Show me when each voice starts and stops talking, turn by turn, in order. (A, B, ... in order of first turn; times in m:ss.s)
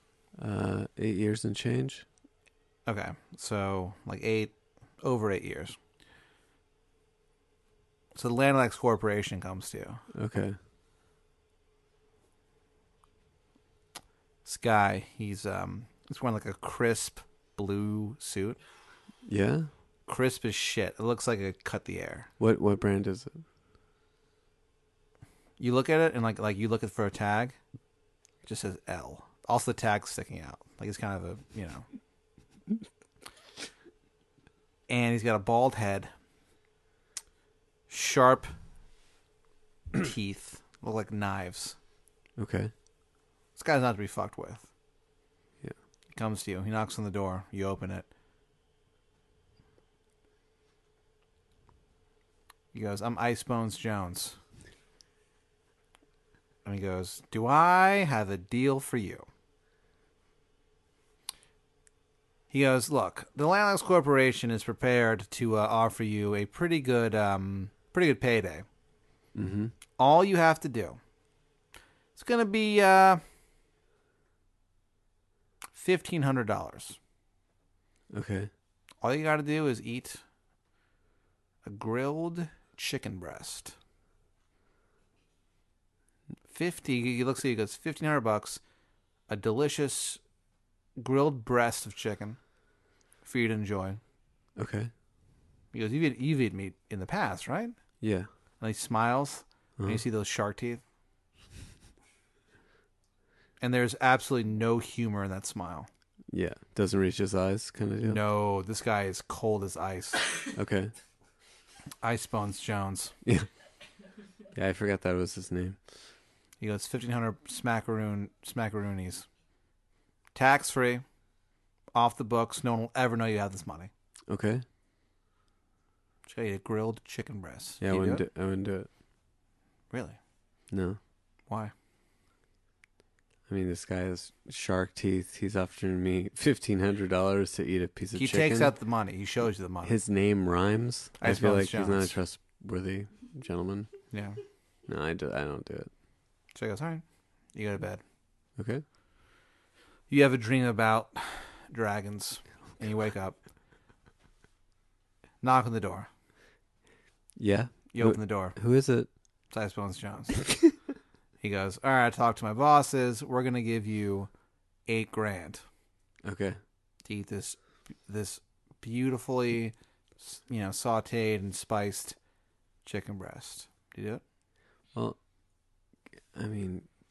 0:00.4-0:02.0 A
0:02.8-0:05.8 B
0:08.1-0:10.0 B
0:10.1-0:10.6 A
0:14.4-0:18.6 B
0:19.2-0:19.7 A
0:20.1-0:22.3 B
0:22.4-0:23.4 A
0:25.6-0:27.6 B
0:28.4-0:31.8 B
0:34.9-0:36.1 B
0:37.9-0:38.5 B
0:39.9-0:41.8 B
0:42.4-0:42.7 A
0:43.6-0:44.7 B
0:46.1-0:48.1 B
0:52.7-0:54.4 B
0:56.6-0:59.2 B
1:02.5-1:08.6 B
1:09.3-1:09.7 A
1:10.0-1:11.0 B
1:12.1-1:13.2 B
1:15.7-1:17.0 B
1:18.1-1:18.5 A
1:19.0-1:20.2 B
1:21.6-1:23.8 B
1:26.5-1:28.6 B
1:29.3-1:30.2 B
1:31.0-1:32.4 B
1:33.2-1:34.0 B
1:34.6-1:34.9 A
1:35.7-1:37.8 B
1:38.0-1:38.3 A
1:38.6-1:40.8 B
1:39.8-1:40.0 A
1:43.6-1:45.9 B
1:46.3-1:48.2 A
1:48.0-1:50.3 B
1:50.5-1:50.9 A
1:52.0-1:53.1 B
1:54.5-1:55.8 A
1:56.6-1:59.3 B
2:00.3-2:01.0 B
2:01.9-2:03.9 B
2:04.3-2:04.6 A
2:06.3-2:08.2 B
2:07.8-2:08.9 A
2:09.9-2:10.2 B
2:10.7-2:11.0 A
2:13.5-2:18.7 A
2:18.1-2:20.0 B
2:19.8-2:23.9 A
2:21.2-2:22.2 B
2:24.1-2:24.4 B
2:24.9-2:25.9 A
2:26.5-2:28.0 B
2:28.6-2:28.8 A
2:30.1-2:33.4 B
2:35.4-2:36.1 B
2:37.4-2:39.1 A
2:37.9-2:38.6 B
2:39.5-2:40.6 B
2:41.4-2:44.3 B
2:44.9-2:45.6 B
2:46.2-2:46.6 A
2:47.0-2:52.2 B
2:52.8-2:54.2 B
2:56.3-2:56.9 A